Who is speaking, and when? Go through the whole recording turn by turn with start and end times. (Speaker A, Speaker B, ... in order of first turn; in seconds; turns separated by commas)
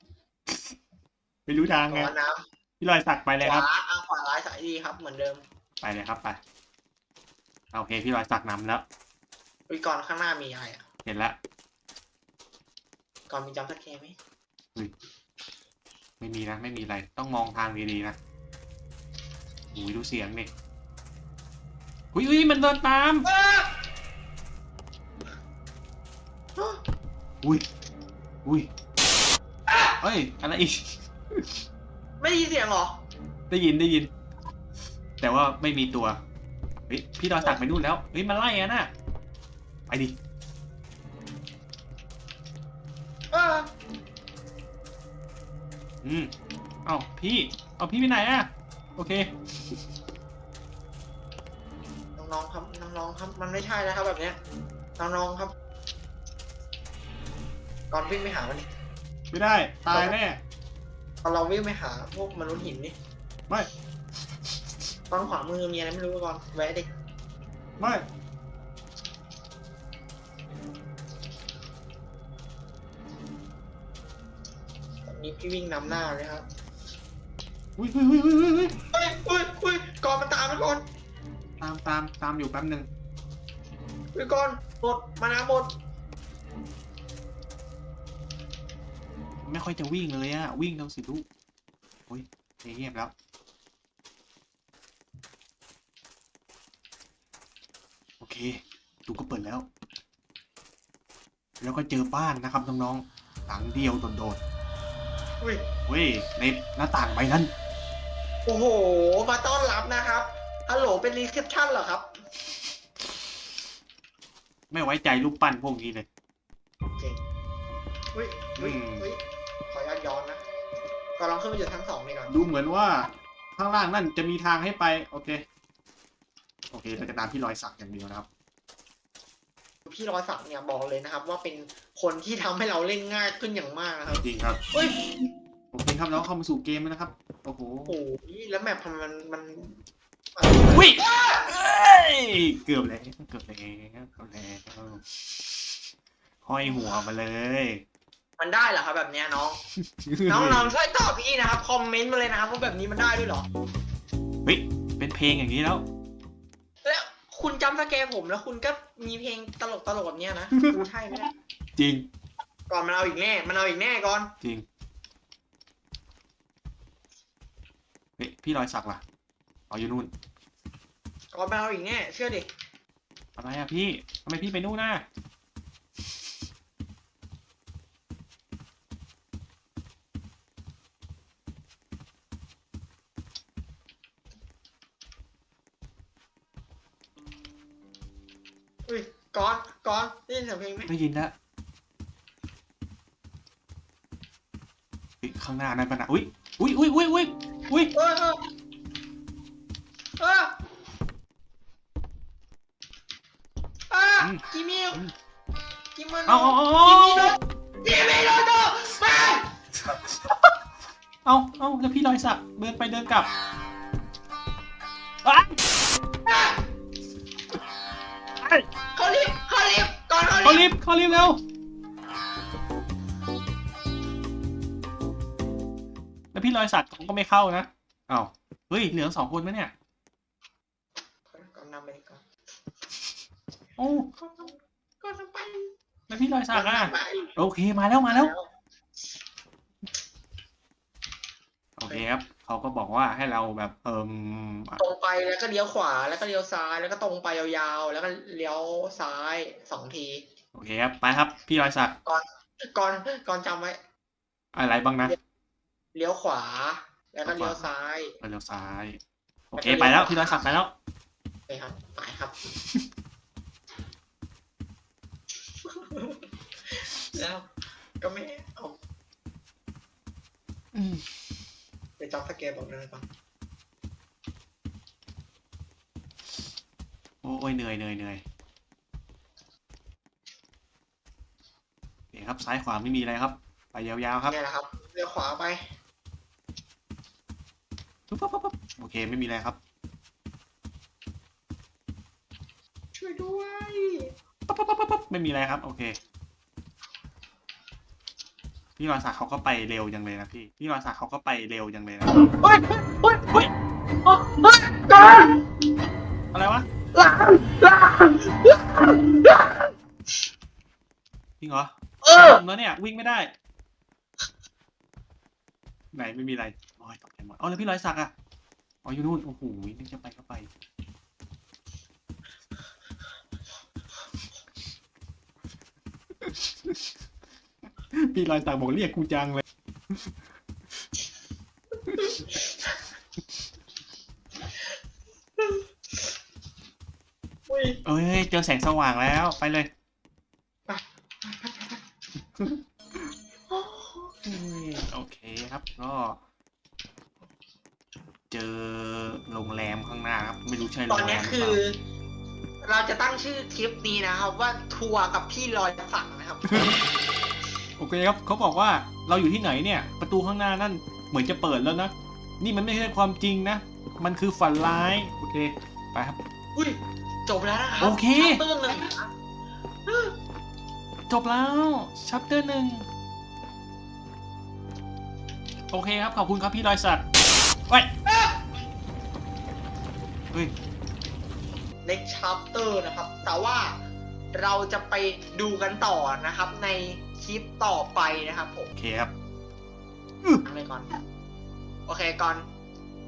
Speaker A: 0.5-0.8, Speaker A: 1.5-2.1, Speaker B: 1.9-2.5, Speaker A: 2.8-3.7, Speaker B: 3.4-5.4, Speaker A: 5.8-6.4, Speaker A: 7.7-8.8, Speaker B: 9.7-10.9, Speaker A: 11.1-11.4, Speaker B: 13.3-14.2, Speaker A: 16.2-18.2, Speaker A: 19.7-20.5, Speaker A: 22.1-23.3, Speaker B: 23.2-23.7, Speaker B: 26.6-26.8, Speaker A: 28.4-28.7, Speaker B: 29.7-29.9, Speaker A: 30.0-31.6, Speaker B: 32.2-33.0, Speaker A: 33.5-34.1, Speaker A: 35.2-36.2, Speaker A: 36.9-38.9, Speaker B: 37.4-37.7, Speaker A: 39.9-40.2, Speaker B: 43.3-43.7, Speaker A: 46.0-46.3, Speaker A: 46.9-49.9, Speaker B: 52.2-54.4, Speaker B: 55.0-55.5, Speaker B: 57.9-58.7, Speaker A: 59.3-60.4, Speaker B: 59.9-60.2, Speaker B: 61.2-63.0, Speaker B: 65.1-66.9, Speaker A: 67.8-68.1, Speaker B: 75.1-76.5, Speaker A: 77.8-78.8, Speaker B: 78.9-80.8, Speaker A: 81.6-82.9, Speaker B: 84.1-85.7, Speaker A: 89.5-91.2, Speaker A: 92.1-93.1, Speaker A: 98.2-99.7, Speaker A: 101.6-104.4, Speaker B: 105.4-105.7, Speaker A: 105.9-107.5, Speaker B: 108.5-112.2, Speaker A: 114.7-116.1, Speaker B: 117.0-117.2, Speaker B: 118.1-120.5, Speaker A: 118.6-119.1, Speaker B: 121.2-122.5, Speaker A: 122.3-125.5, Speaker A: 126.7-128.3, Speaker B: 129.9-135.1, Speaker A: 134.2-134.6, Speaker A: 135.7-138.0, Speaker B: 137.9-139.8, Speaker B: 140.4-141.5, Speaker A: 140.7-145.5, Speaker A: 146.4-147.8, Speaker B: 148.4-149.6, Speaker A: 149.7-150.7, Speaker B: 150.3-153.5, Speaker A: 154.4-155.8, Speaker B: 156.8-161.3, Speaker A: 161.8-162.1, Speaker B: 162.7-164.3, Speaker A: 168.2-169.0, Speaker A: 169.7-170.1, Speaker B: 171.3-172.5, Speaker A: 173.4-175.1, Speaker B: 188.9-190.9, Speaker A: 190.9-191.3, Speaker A: 195.2-197.9, Speaker B: 197.9-198.5, Speaker B: 200.2-200.6, Speaker B: 203.9-205.0, Speaker A: 204.2-205.1, Speaker B: 205.9-209.5, Speaker A: 206.3-207.4, Speaker A: 209.8-210.6, Speaker A: 211.2-213.3, Speaker A: 215.2-215.6, Speaker B: 216.3-216.6, Speaker A: 218.4-218.7, Speaker B: 218.9-220.7, Speaker A: 220.4-221.4, Speaker A: 226.3-229.7, Speaker B: 231.3-232.2, Speaker A: 233.8-234.1, Speaker B: 234.1-235.7, Speaker A: 236.1-238.3, Speaker B: 236.5-237.3, Speaker B: 238.1-238.5, Speaker A: 241.8-244.8, Speaker B: 244.8-250.3, Speaker A: 250.5-251.9, Speaker B: 252.1-253.8, Speaker A: 254.5-255.2, Speaker B: 255.9-258.2, Speaker A: 257.2-257.6, Speaker A: 258.2-259.0, Speaker A: 259.5-260.7, Speaker B: 259.6-260.4, Speaker B: 261.5-262.5, Speaker A: 262.6-262.9, Speaker B: 265.6-268.8, Speaker A: 270.7-271.1, Speaker B: 272.0-273.1, Speaker A: 277.2-278.2, Speaker A: 282.1-284.4, Speaker B: 284.2-285.7, Speaker A: 288.1-289.6, Speaker B: 292.9-294.1, Speaker A: 294.5-296.0, Speaker A: 298.8-302.3, Speaker B: 302.1-303.4, Speaker B: 304.1-305.4, Speaker A: 306.3-306.7, Speaker B: 306.9-309.7, Speaker A: 311.4-313.3, Speaker B: 312.0-312.4, Speaker A: 315.9-318.1, Speaker A: 318.8-320.5, Speaker A: 326.2-326.9, Speaker A: 327.9-330.1, Speaker A: 331.9-332.2, Speaker B: 331.9-332.7, Speaker B: 335.4-335.6, Speaker B: 337.5-337.8, Speaker A: 337.9-339.7, Speaker B: 340.7-341.8, Speaker A: 342.4-343.1, Speaker B: 343.5-344.2, Speaker A: 344.2-346.2, Speaker A: 348.3-351.6, Speaker B: 350.9-351.8, Speaker B: 352.6-356.8, Speaker A: 356.4-356.8, Speaker A: 357.8-366.2, Speaker B: 366.6-369.1, Speaker A: 367.8-368.8, Speaker B: 369.9-370.1, Speaker A: 371.1-372.9, Speaker A: 375.7-377.1, Speaker B: 378.1-378.4, Speaker B: 381.8-383.8, Speaker B: 384.3-388.7, Speaker A: 388.8-389.1, Speaker B: 390.4-390.9, Speaker B: 391.9-392.5